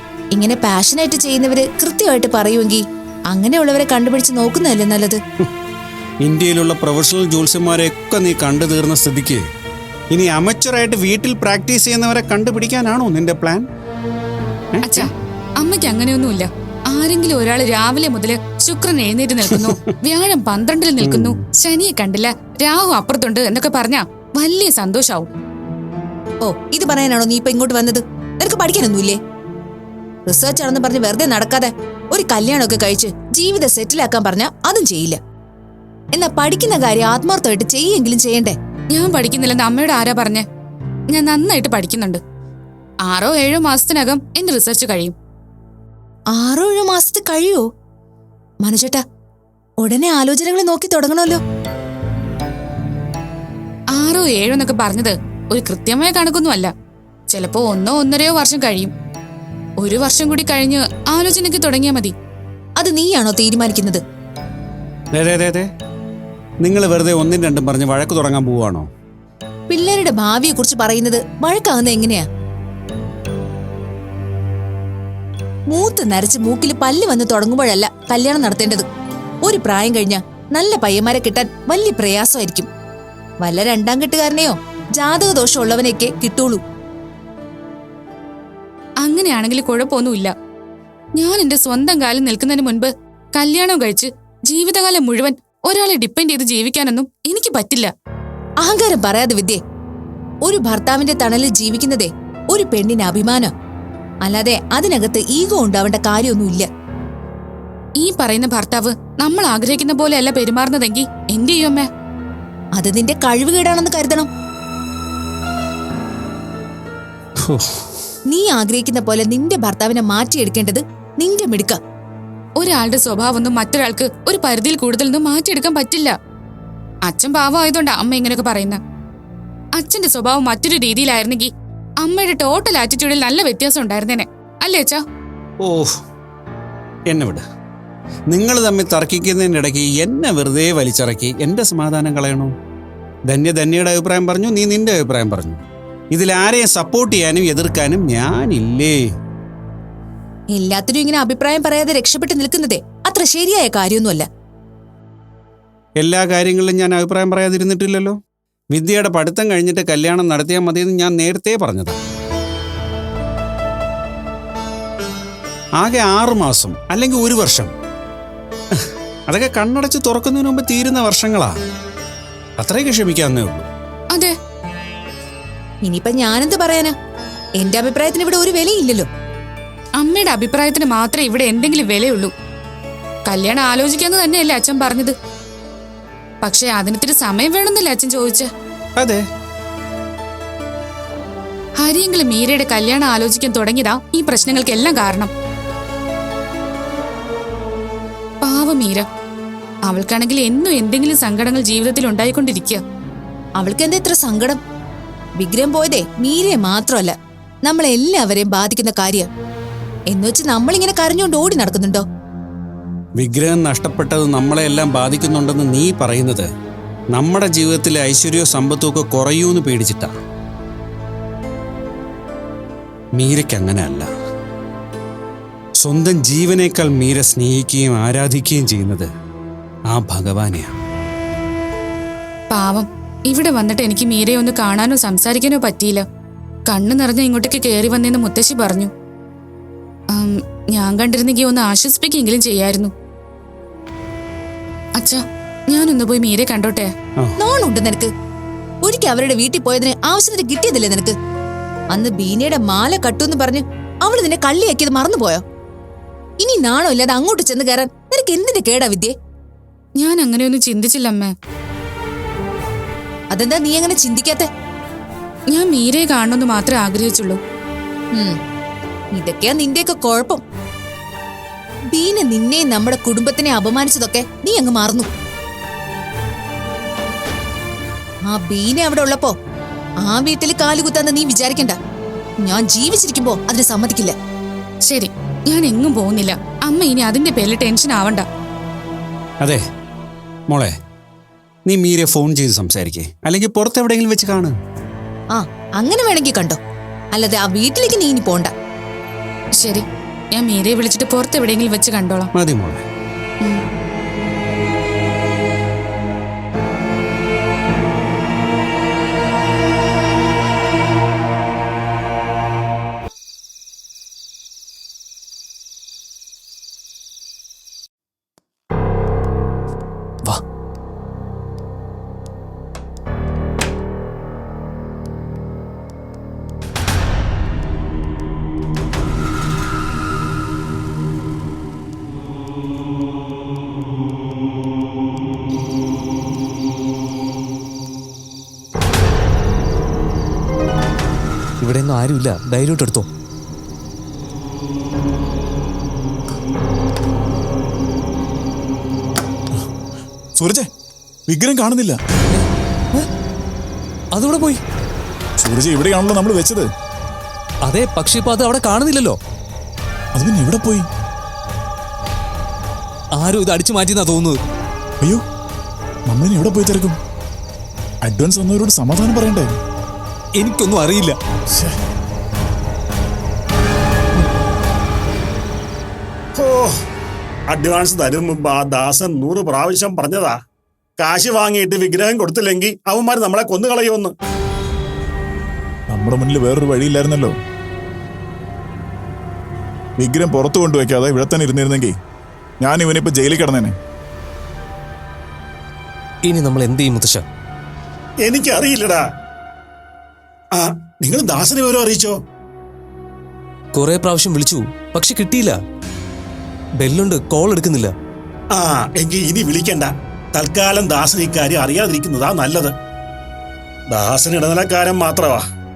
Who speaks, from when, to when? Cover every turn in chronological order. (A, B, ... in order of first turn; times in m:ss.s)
0:00.3-0:05.2 A
0:06.2-0:09.4 B
0:10.1-0:13.6 B
0:14.8-0:15.1 B
0:14.8-0:25.3 C
0:21.0-0:21.4 B
0:26.4-0:29.2 A
0:30.3-0:35.2 A
0:36.1-0:38.5 A
0:38.9-0:40.4 C
0:41.1-0:42.2 C
0:43.1-0:45.1 C
0:46.3-0:47.6 A
0:48.6-0:49.0 A
0:49.8-0:51.4 A
0:53.9-0:56.7 C
0:57.3-0:58.9 C
0:59.8-1:02.1 C
1:02.8-1:04.0 A
1:05.1-1:05.6 B
1:06.6-1:08.9 B
1:09.7-1:12.2 A
1:15.7-1:18.8 A
1:19.4-1:22.7 A
1:23.4-1:26.6 A
1:29.0-1:30.3 C
1:31.2-1:37.9 C
1:38.6-1:39.6 A
1:40.4-1:43.5 A
1:44.2-1:46.6 A
1:48.0-1:51.9 C
1:52.7-1:54.3 A
1:57.4-1:57.8 B
1:58.3-2:01.8 A
2:02.6-2:06.1 C
2:07.1-2:08.8 C
2:09.8-2:11.5 C
2:12.0-2:15.0 C
2:15.6-2:15.9 B
2:17.1-2:17.4 B
2:18.3-2:22.5 B
2:23.3-2:29.0 B
2:30.5-2:34.2 A
2:36.0-2:38.2 B
2:38.7-2:42.0 B
2:45.8-2:47.7 B
2:48.8-2:51.6 B
2:52.6-2:53.7 B
2:55.8-2:56.9 A
2:57.6-2:59.1 A
3:00.0-3:02.3 C
3:03.2-3:05.1 C
3:06.4-3:08.5 C
3:09.0-3:09.2 B
3:11.8-3:15.3 C
3:18.4-3:19.0 C
3:19.8-3:22.8 C
3:23.6-3:24.6 A
3:25.4-3:29.3 A
3:30.1-3:32.0 A
3:33.2-3:36.4 B
3:37.1-3:40.1 B
3:43.2-3:44.1 B
3:45.8-3:49.1 B
3:49.9-3:50.7 B
3:52.5-3:56.0 C
3:56.7-3:58.9 C
4:00.1-4:02.9 C
4:05.0-4:06.9 C
4:07.4-4:08.1 A
4:08.8-4:11.1 A
4:11.9-4:15.4 A
4:16.4-4:19.1 A
4:20.0-4:21.3 C
4:23.3-4:24.5 A
4:25.5-4:27.4 C
4:29.1-4:30.4 A
4:31.9-4:35.1 A
4:38.3-4:39.3 A
4:40.0-4:41.8 A
4:42.4-4:44.1 A
4:44.8-4:48.2 C
4:51.6-4:54.5 B
4:55.3-4:56.6 A
4:57.1-4:58.5 A
4:59.6-5:02.3 C
5:02.3-5:02.8 B
5:41.6-5:43.1 D
5:50.4-5:50.7 E
5:51.3-5:52.0 E
5:54.1-5:54.6 D
5:55.4-5:56.6 E
5:57.6-5:59.2 D
6:00.2-6:00.9 E
6:03.1-6:04.4 D
6:06.1-6:07.0 E
6:08.0-6:09.5 E
6:10.4-6:11.2 D
6:16.4-6:16.7 F
6:17.5-6:20.3 F
6:21.0-6:24.1 F
6:25.9-6:27.3 E
6:30.0-6:31.9 E
6:32.6-6:33.7 E
6:36.2-6:37.2 D
6:38.2-6:39.0 F
6:40.6-6:42.1 F
6:43.7-6:45.6 D
6:46.8-6:47.9 D
6:48.5-6:52.7 F
6:53.9-6:55.4 F